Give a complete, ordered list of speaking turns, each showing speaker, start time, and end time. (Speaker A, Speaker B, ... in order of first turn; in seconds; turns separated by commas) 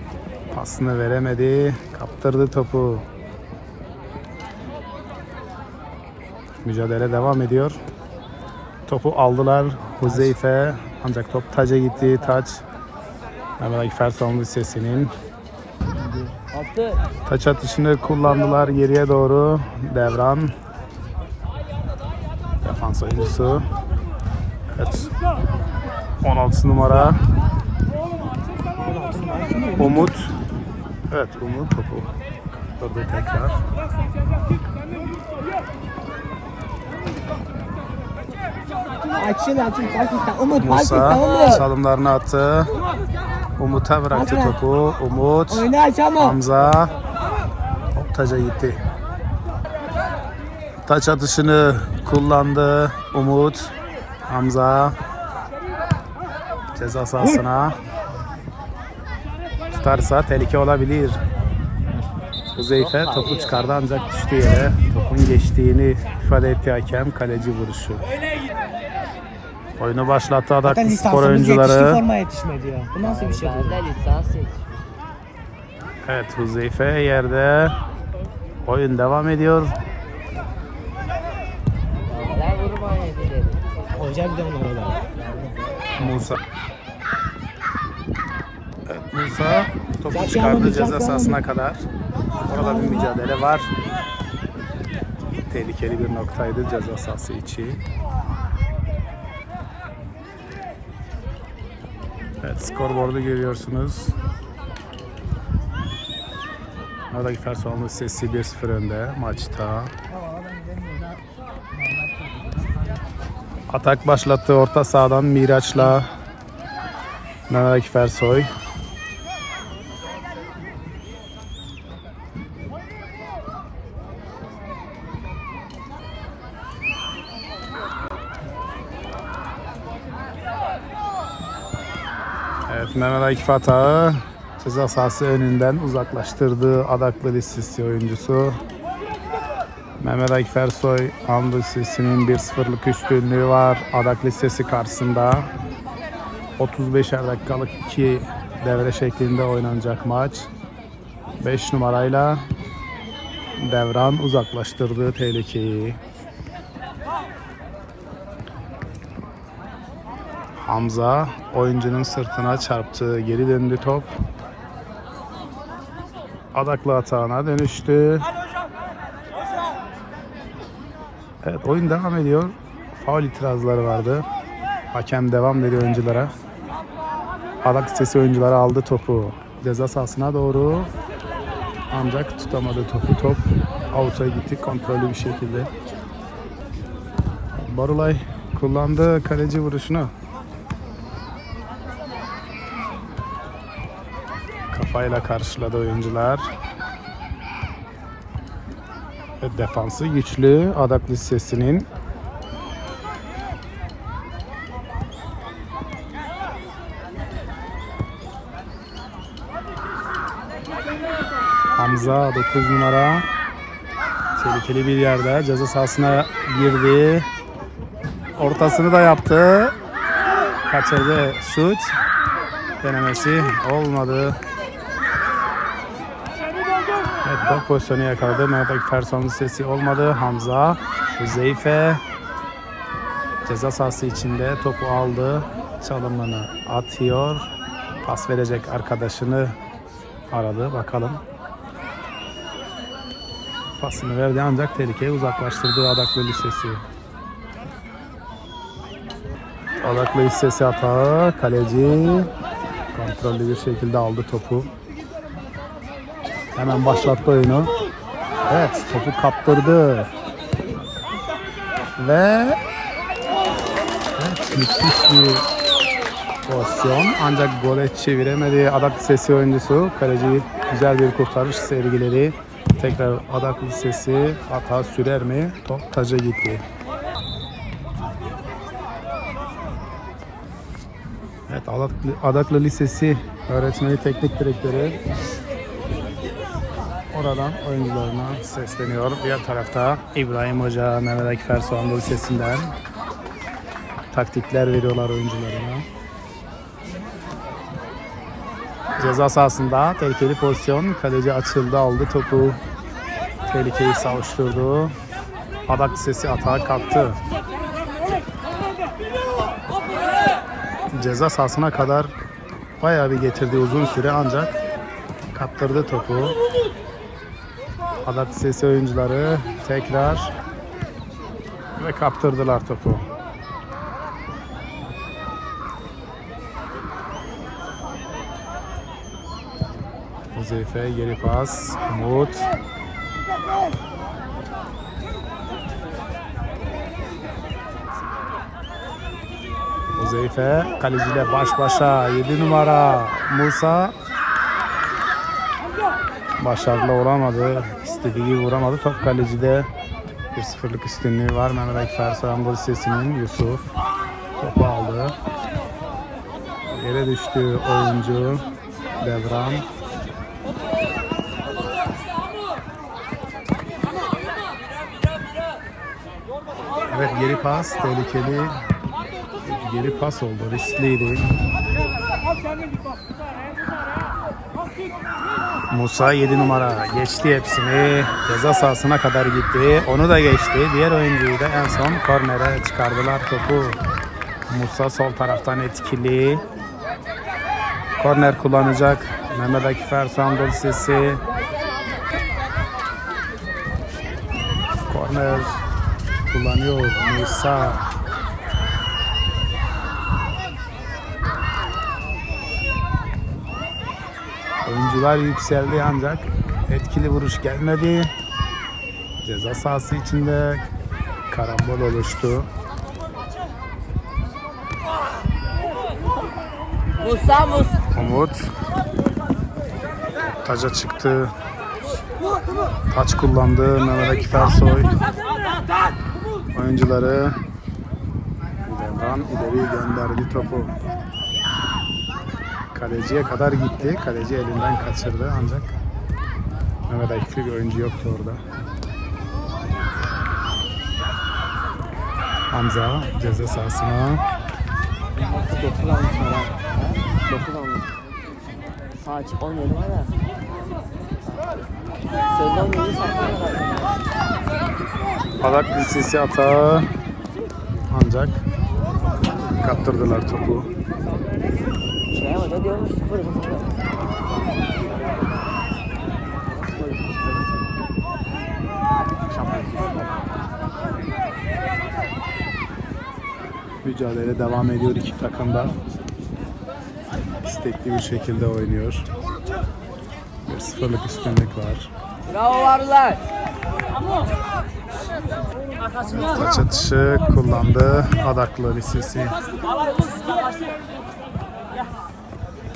Speaker A: 0.5-3.0, Speaker A: 6.6-7.8, Speaker A: 8.8-12.6, Speaker B: 11.9-12.4, Speaker A: 13.6-15.1, Speaker B: 16.5-17.0, Speaker A: 17.2-20.5, Speaker A: 22.6-23.6, Speaker A: 24.7-25.1, Speaker A: 26.2-27.2, Speaker C: 28.8-30.1, Speaker A: 29.8-30.3, Speaker A: 31.1-33.6, Speaker C: 39.1-41.6, Speaker A: 40.6-42.7, Speaker B: 41.1-41.6, Speaker A: 43.6-45.7, Speaker C: 44.1-44.6, Speaker C: 45.5-46.4, Speaker A: 46.2-46.9, Speaker A: 47.9-48.8, Speaker A: 50.8-53.7, Speaker A: 54.3-55.0, Speaker A: 56.7-57.8, Speaker A: 59.7-61.2, Speaker A: 62.5-68.1, Speaker B: 62.8-63.6, Speaker A: 69.8-72.0, Speaker C: 70.6-73.8, Speaker B: 73.0-74.6, Speaker A: 76.0-77.8, Speaker A: 78.6-79.7, Speaker B: 82.0-83.6, Speaker C: 83.9-85.2, Speaker B: 85.2-85.9, Speaker A: 86.0-86.4, Speaker A: 88.8-91.8, Speaker C: 90.1-91.4, Speaker A: 92.5-93.7, Speaker C: 92.5-93.1, Speaker A: 95.4-97.8, Speaker A: 102.4-104.1, Speaker A: 107.1-109.9, Speaker C: 110.3-111.0, Speaker A: 113.7-116.1, Speaker A: 117.5-118.5, Speaker A: 132.7-138.6, Speaker A: 140.0-145.5, Speaker A: 146.6-150.5, Speaker A: 151.4-152.4, Speaker A: 153.6-156.0, Speaker A: 160.6-164.1, Speaker A: 166.5-168.3, Speaker A: 171.4-174.3, Speaker A: 174.9-176.3, Speaker A: 177.6-180.9, Speaker A: 181.9-185.7, Speaker A: 187.5-190.1, Speaker A: 194.7-196.5, Speaker A: 199.4-201.9, Speaker A: 211.7-213.3, Speaker A: 214.4-217.3, Speaker A: 218.4-219.7, Speaker A: 220.7-222.0, Speaker A: 222.8-224.4, Speaker A: 227.2-232.0, Speaker A: 233.4-237.5, Speaker A: 238.0-239.6, Speaker A: 240.3-241.2, Speaker A: 243.8-246.8, Speaker A: 249.8-252.3, Speaker A: 252.9-254.7, Speaker A: 256.5-257.7, Speaker A: 258.4-260.1, Speaker A: 261.9-262.6, Speaker A: 264.2-265.4, Speaker A: 266.4-276.6, Speaker A: 281.5-285.0, Speaker A: 287.1-292.7, Speaker A: 294.1-295.9, Speaker A: 299.0-302.6, Speaker A: 303.5-304.9, Speaker A: 305.7-307.2, Speaker A: 310.9-312.1, Speaker A: 312.8-314.6, Speaker A: 315.3-316.4, Speaker A: 318.0-320.3, Speaker A: 321.8-323.1, Speaker A: 330.3-332.5, Speaker A: 339.9-343.9, Speaker A: 346.4-349.7, Speaker A: 350.3-353.7, Speaker A: 354.4-355.1, Speaker A: 356.7-358.4, Speaker A: 359.0-359.6, Speaker A: 366.9-368.6, Speaker A: 369.4-371.4, Speaker A: 375.7-383.8, Speaker A: 384.5-386.4, Speaker A: 388.0-391.2, Speaker A: 394.9-395.6, Speaker A: 396.3-397.9, Speaker A: 404.6-408.1, Speaker A: 409.2-410.7, Speaker A: 411.3-412.5, Speaker B: 417.0-417.8, Speaker A: 417.9-418.4, Speaker A: 420.3-421.3, Speaker A: 422.9-425.0, Speaker A: 426.5-427.4, Speaker A: 428.6-430.7, Speaker A: 432.7-435.7, Speaker A: 436.9-438.4, Speaker A: 442.5-444.2, Speaker B: 445.1-447.9, Speaker B: 449.0-450.1, Speaker B: 452.3-454.0, Speaker A: 455.4-456.9, Speaker A: 457.9-458.4, Speaker A: 459.6-460.7, Speaker B: 462.1-463.8, Speaker B: 466.5-467.6, Speaker A: 473.8-475.8, Speaker A: 477.4-479.1, Speaker A: 480.4-481.9, Speaker B: 482.3-483.2, Speaker A: 486.1-489.4